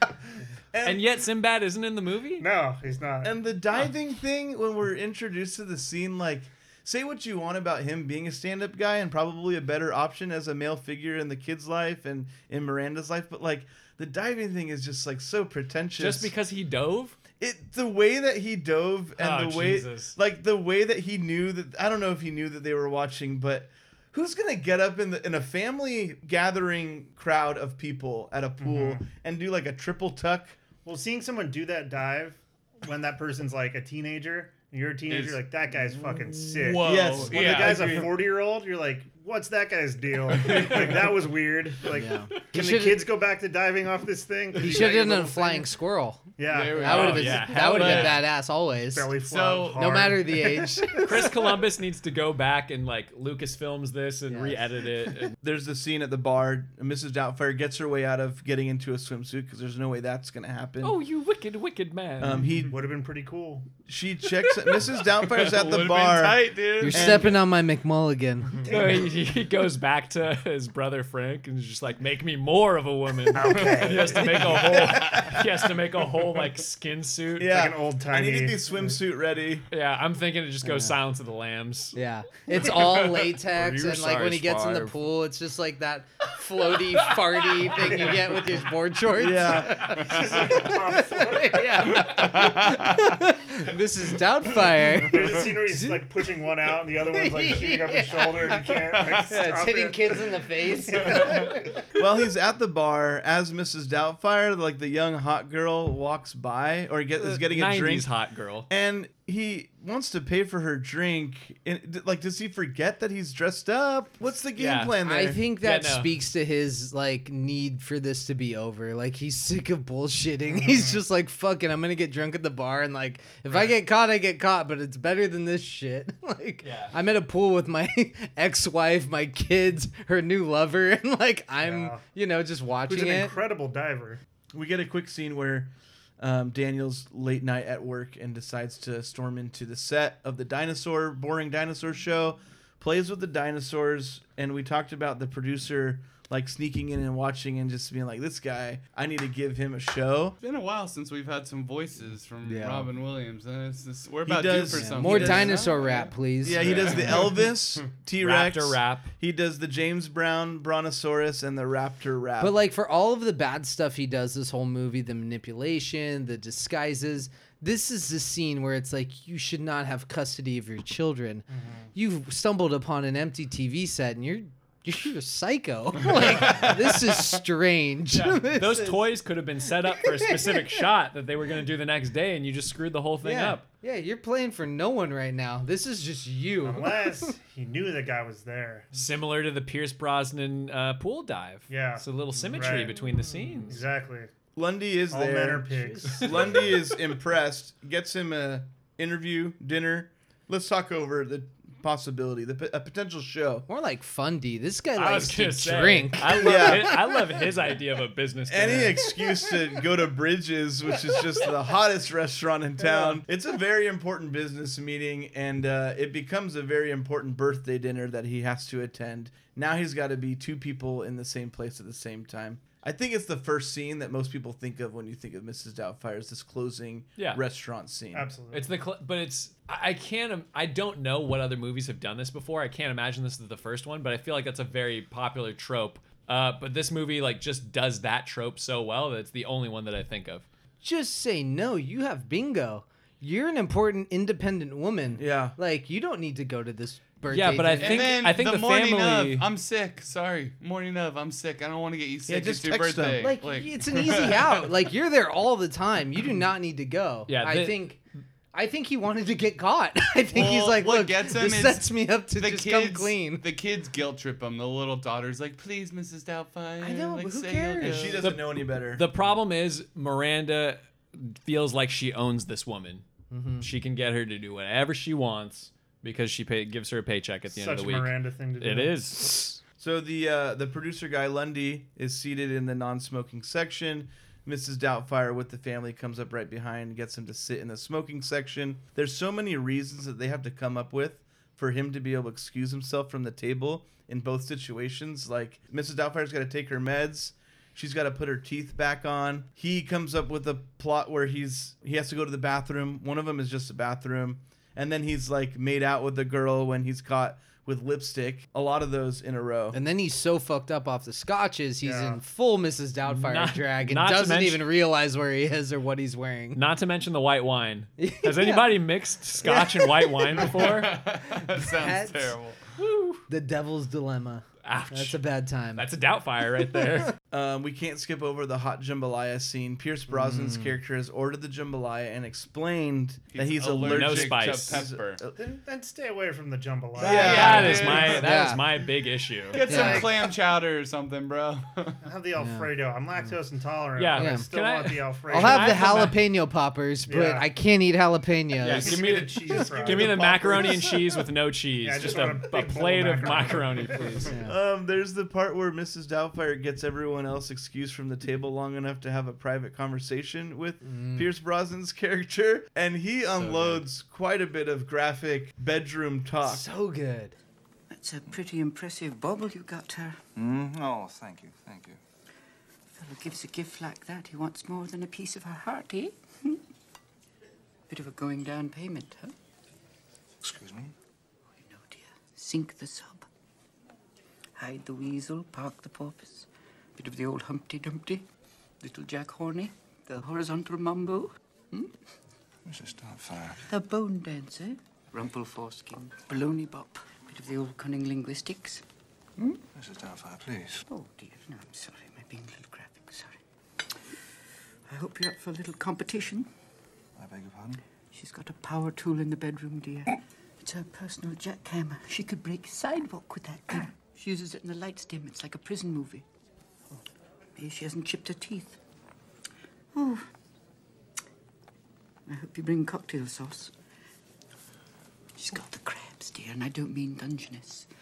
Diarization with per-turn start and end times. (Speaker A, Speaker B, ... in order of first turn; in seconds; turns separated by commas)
Speaker A: 0.7-1.0, Speaker B: 0.8-2.5, Speaker C: 2.4-3.4, Speaker A: 3.2-16.3, Speaker B: 16.0-17.2, Speaker A: 17.4-30.6, Speaker B: 19.2-20.1, Speaker C: 28.6-29.1, Speaker C: 30.8-45.7, Speaker D: 35.1-35.4, Speaker B: 36.4-38.0, Speaker D: 36.8-38.0, Speaker A: 36.8-37.9, Speaker B: 40.5-41.0, Speaker E: 41.9-43.0, Speaker E: 44.6-49.1, Speaker C: 46.4-48.1, Speaker D: 46.5-48.2, Speaker B: 46.9-48.2, Speaker C: 48.8-51.1, Speaker D: 49.3-50.1, Speaker E: 49.7-51.2, Speaker B: 51.0-55.3, Speaker E: 54.3-54.7, Speaker A: 55.4-61.0, Speaker B: 60.8-62.5, Speaker A: 62.2-62.8, Speaker C: 62.7-63.7, Speaker A: 63.9-67.3, Speaker D: 65.3-67.3, Speaker E: 66.8-68.6, Speaker C: 68.5-69.1, Speaker B: 68.7-77.5, Speaker C: 73.3-74.7, Speaker D: 73.4-75.3, Speaker E: 73.7-74.1, Speaker A: 77.4-79.7, Speaker C: 77.5-78.6, Speaker B: 79.7-82.0, Speaker E: 80.6-81.0, Speaker E: 81.9-96.0, Speaker B: 82.5-84.9, Speaker C: 87.8-88.6, Speaker A: 89.2-89.8, Speaker C: 89.3-91.8, Speaker D: 92.2-92.8, Speaker C: 95.0-101.8, Speaker E: 97.1-98.6, Speaker D: 98.9-99.3, Speaker E: 99.3-101.5, Speaker A: 102.0-108.1, Speaker B: 107.2-108.7, Speaker A: 108.7-115.4, Speaker B: 114.6-115.0, Speaker E: 115.0-133.3, Speaker B: 115.6-116.1, Speaker C: 120.5-121.0, Speaker B: 126.6-126.9, Speaker C: 131.6-132.0, Speaker C: 132.9-134.2, Speaker A: 134.5-150.4, Speaker D: 150.4-157.4, Speaker E: 152.4-152.9, Speaker A: 154.3-155.6, Speaker E: 154.8-156.9, Speaker A: 156.4-162.6, Speaker B: 158.2-159.1, Speaker E: 162.4-179.0, Speaker C: 171.5-171.9, Speaker B: 178.1-183.7, Speaker E: 180.1-180.8, Speaker E: 183.2-187.3, Speaker C: 186.6-189.1, Speaker B: 188.9-193.8, Speaker C: 191.7-194.3, Speaker A: 194.6-203.7, Speaker C: 195.1-196.4, Speaker E: 203.7-207.2, Speaker B: 204.9-209.1, Speaker A: 206.4-207.0, Speaker A: 208.5-228.3, Speaker C: 228.1-228.8, Speaker B: 228.5-240.4, Speaker E: 240.8-248.2, Speaker A: 245.2-245.6, Speaker B: 247.3-249.5, Speaker D: 247.8-254.6, Speaker A: 252.3-253.3, Speaker E: 253.2-258.0, Speaker B: 257.3-257.8, Speaker E: 258.5-263.4, Speaker D: 260.3-268.2, Speaker E: 266.8-268.2, Speaker A: 267.8-269.1, Speaker B: 268.3-273.0, Speaker E: 273.3-273.7, Speaker B: 273.6-279.6, Speaker C: 277.5-279.0, Speaker A: 279.8-309.8, Speaker E: 309.7-316.6, Speaker C: 311.8-312.2, Speaker B: 313.1-314.6, Speaker B: 316.5-321.0, Speaker E: 318.0-318.8, Speaker E: 319.4-319.7, Speaker D: 320.4-322.7, Speaker E: 321.8-322.4, Speaker B: 322.8-323.2, Speaker E: 323.3-325.9, Speaker B: 324.6-325.2, Speaker B: 325.8-327.2, Speaker A: 327.3-335.3, Speaker E: 330.1-330.7, Speaker D: 333.3-335.2, Speaker B: 333.8-334.9, Speaker C: 335.4-338.0, Speaker A: 337.0-337.8, Speaker D: 337.0-338.4, Speaker B: 337.1-339.9, Speaker E: 337.9-338.7, Speaker D: 339.5-342.0, Speaker E: 339.7-340.1, Speaker C: 339.7-340.2, Speaker C: 342.0-346.1, Speaker E: 342.4-342.7, Speaker B: 343.9-346.2, Speaker E: 344.1-344.5, Speaker E: 345.3-349.0, Speaker C: 347.1-347.5, Speaker B: 348.6-354.4, Speaker C: 348.7-350.6, Speaker A: 349.6-351.0, Speaker C: 351.8-354.3, Speaker E: 354.2-354.5, Speaker A: 354.4-366.6, Speaker E: 360.8-361.2, Speaker E: 366.4-367.4, Speaker F: 367.9-370.2, Speaker G: 370.4-372.0, Speaker F: 372.9-376.6, Speaker F: 377.9-379.4, Speaker G: 380.4-380.9, Speaker F: 381.6-383.3, Speaker F: 384.6-388.2, Speaker F: 388.8-391.9, Speaker G: 392.6-393.6, Speaker F: 393.7-398.8, Speaker G: 399.8-400.8, Speaker F: 400.9-403.4, Speaker F: 404.9-406.5, Speaker G: 407.2-407.8, Speaker F: 408.1-416.2, Speaker F: 417.6-418.8, Speaker F: 419.9-420.3, Speaker F: 422.3-423.8, Speaker F: 425.4-427.9